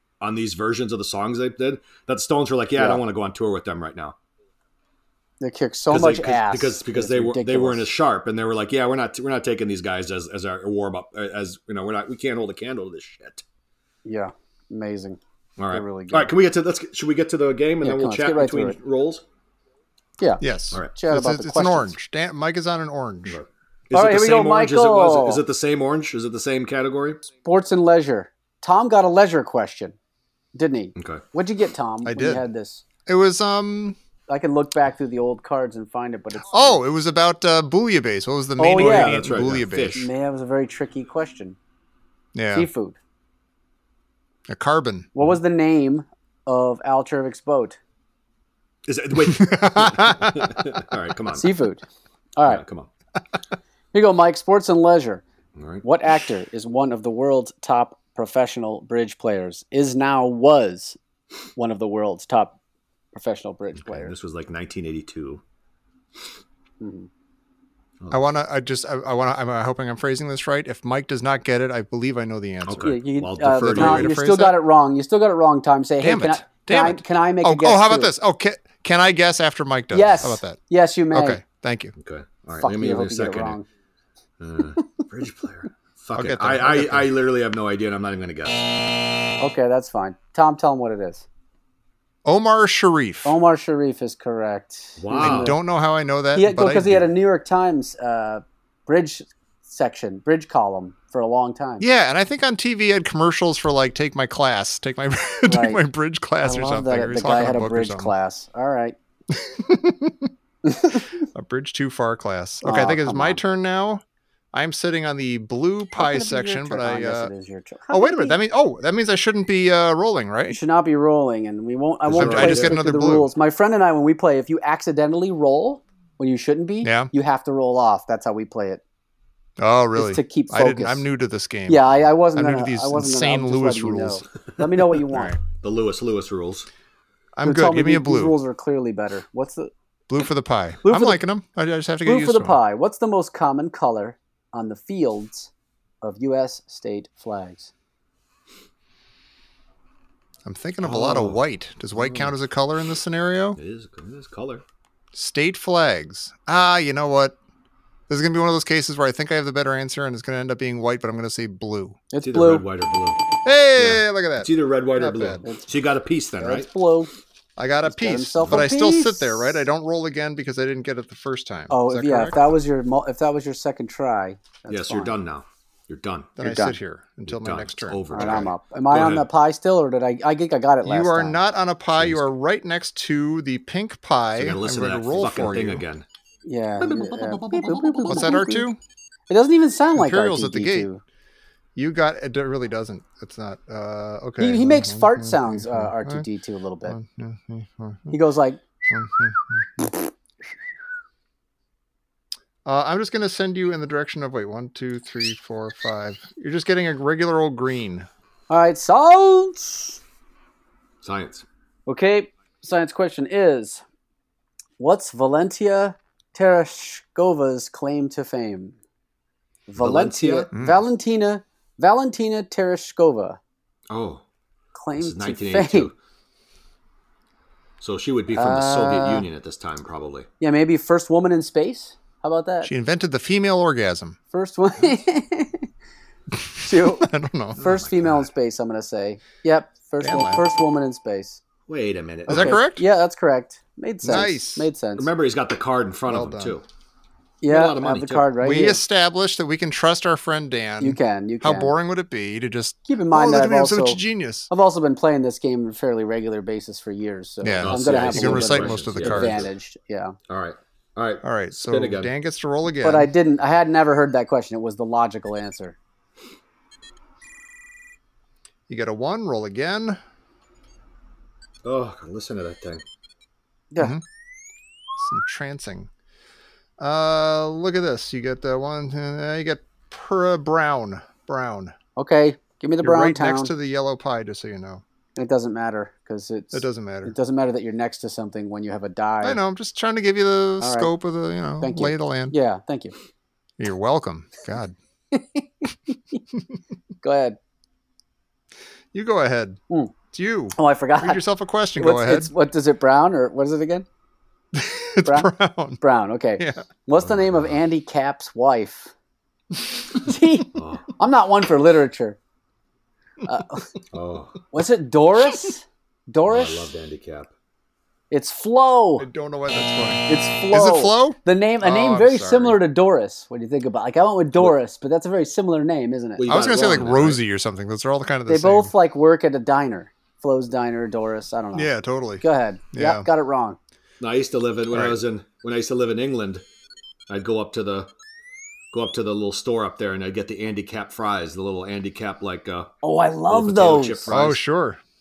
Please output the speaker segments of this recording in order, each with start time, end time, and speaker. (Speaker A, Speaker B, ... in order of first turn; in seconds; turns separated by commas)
Speaker A: 0.2-4.2, Speaker B: 2.8-3.0, Speaker B: 5.4-7.9, Speaker A: 5.9-13.4, Speaker B: 14.1-15.2, Speaker A: 15.6-19.2, Speaker B: 15.7-16.3, Speaker B: 17.8-18.8, Speaker C: 20.4-23.4, Speaker B: 20.9-22.0, Speaker A: 23.3-27.2, Speaker B: 23.9-25.4, Speaker B: 27.4-30.0, Speaker B: 30.6-32.8, Speaker A: 31.0-31.2, Speaker C: 32.0-32.4, Speaker C: 33.1-34.0, Speaker B: 34.3-36.8, Speaker C: 36.5-40.0, Speaker B: 38.6-39.3, Speaker A: 38.8-40.1, Speaker B: 39.9-41.6, Speaker C: 42.4-42.7, Speaker B: 42.5-43.0, Speaker C: 44.5-45.1, Speaker B: 45.1-47.8, Speaker A: 48.9-51.5, Speaker C: 49.3-50.6, Speaker B: 51.4-51.8, Speaker A: 52.5-52.9, Speaker B: 53.9-55.2, Speaker A: 55.6-55.8, Speaker B: 55.8-61.0, Speaker B: 61.6-62.6, Speaker B: 63.1-64.1, Speaker A: 63.8-65.4, Speaker B: 66.8-67.1, Speaker C: 68.1-72.9, Speaker A: 72.7-74.1, Speaker B: 72.8-78.1, Speaker C: 73.6-74.6, Speaker C: 76.0-80.6, Speaker B: 79.9-81.4, Speaker C: 81.1-81.9, Speaker A: 82.0-83.6, Speaker B: 82.6-83.7, Speaker A: 84.4-88.7, Speaker C: 86.2-87.1, Speaker B: 89.4-91.2, Speaker C: 92.2-93.4, Speaker B: 93.2-95.6, Speaker A: 95.0-95.5, Speaker C: 95.2-97.0, Speaker B: 96.3-101.8, Speaker C: 101.8-108.1, Speaker B: 105.5-105.8, Speaker B: 106.4-109.0, Speaker C: 109.3-110.3, Speaker B: 110.7-111.1, Speaker C: 111.3-114.0, Speaker B: 112.6-113.4, Speaker C: 114.5-117.3, Speaker B: 116.0-118.4, Speaker C: 117.9-120.6, Speaker B: 120.5-128.8, Speaker C: 122.1-123.3, Speaker A: 122.1-122.8, Speaker C: 126.8-127.1, Speaker C: 129.6-134.2, Speaker B: 130.0-131.1, Speaker B: 131.7-135.4, Speaker C: 135.1-135.4, Speaker A: 135.5-136.7, Speaker C: 137.4-138.4, Speaker B: 137.4-139.7, Speaker C: 140.1-142.6, Speaker B: 140.8-141.2, Speaker B: 142.1-145.5, Speaker B: 146.0-147.7, Speaker C: 150.4-153.6, Speaker A: 150.8-151.4, Speaker A: 152.0-152.3, Speaker A: 153.6-154.6, Speaker C: 155.1-157.4, Speaker C: 158.1-162.0, Speaker B: 162.1-162.6, Speaker A: 162.2-163.2, Speaker C: 163.4-165.4, Speaker A: 163.8-166.7, Speaker B: 166.4-167.1, Speaker C: 167.6-172.5, Speaker B: 167.8-169.6, Speaker B: 171.7-175.2, Speaker A: 174.7-176.3, Speaker C: 176.4-178.4, Speaker B: 176.4-176.8, Speaker A: 177.3-179.3, Speaker B: 178.1-181.4, Speaker C: 180.8-185.8, Speaker A: 184.4-186.1, Speaker B: 186.4-188.7, Speaker A: 186.8-188.3, Speaker C: 188.1-188.8, Speaker B: 189.3-191.0, Speaker C: 189.9-190.9, Speaker C: 191.8-196.2, Speaker B: 194.4-197.0, Speaker C: 196.8-198.2, Speaker B: 198.1-198.6, Speaker C: 198.9-199.7, Speaker C: 202.7-208.1, Speaker B: 208.5-210.0, Speaker A: 211.0-211.4, Speaker B: 211.9-213.8, Speaker B: 214.8-218.8, Speaker B: 219.7-223.4, Speaker A: 219.8-220.5, Speaker C: 220.5-220.8, Speaker A: 223.9-224.2, Speaker B: 224.8-225.9, Speaker A: 225.0-225.9, Speaker A: 227.8-230.3, Speaker B: 228.3-229.2, Speaker B: 230.4-232.7, Speaker C: 232.6-234.2, Speaker B: 234.3-235.7, Speaker B: 236.6-241.4, Speaker C: 237.0-237.7, Speaker A: 237.6-238.2, Speaker C: 240.0-240.4, Speaker A: 241.7-242.6, Speaker B: 242.3-245.1, Speaker C: 242.3-242.8, Speaker C: 244.0-244.7, Speaker A: 245.0-246.6, Speaker C: 246.1-246.6, Speaker B: 247.4-248.8, Speaker A: 247.5-248.3, Speaker C: 248.4-254.5, Speaker B: 250.8-251.7, Speaker B: 252.9-260.2, Speaker C: 257.4-259.5, Speaker A: 257.6-259.5, Speaker A: 260.3-262.1, Speaker C: 261.2-263.1, Speaker B: 262.8-265.8, Speaker C: 268.7-270.0, Speaker A: 271.6-272.8, Speaker C: 275.0-275.9, Speaker C: 276.8-281.7, Speaker B: 282.0-283.5, Speaker C: 282.8-284.8, Speaker B: 285.2-289.4, Speaker C: 286.5-287.1, Speaker C: 289.2-292.4, Speaker B: 290.6-290.9, Speaker B: 291.6-292.9, Speaker C: 293.6-294.8, Speaker B: 295.1-296.2, Speaker B: 297.0-297.4, Speaker C: 298.9-299.6, Speaker C: 300.1-302.3, Speaker B: 300.6-301.2, Speaker B: 301.8-303.9, Speaker C: 304.5-305.8, Speaker B: 305.0-308.9, Speaker C: 306.4-306.6, Speaker A: 307.1-307.4, Speaker B: 309.9-312.2, Speaker A: 310.6-310.9, Speaker B: 313.2-313.7, Speaker A: 313.9-314.4, Speaker B: 314.5-316.7, Speaker A: 316.3-317.3, Speaker B: 318.1-319.1, Speaker C: 319.0-322.6, Speaker B: 320.1-326.7, Speaker A: 326.2-327.2, Speaker C: 326.3-328.7, Speaker B: 328.3-333.6, Speaker C: 331.5-333.1, Speaker A: 334.0-336.4, Speaker C: 334.7-335.0, Speaker A: 337.1-337.9, Speaker A: 338.7-342.7, Speaker B: 342.8-344.2, Speaker A: 343.3-344.4, Speaker C: 344.1-344.8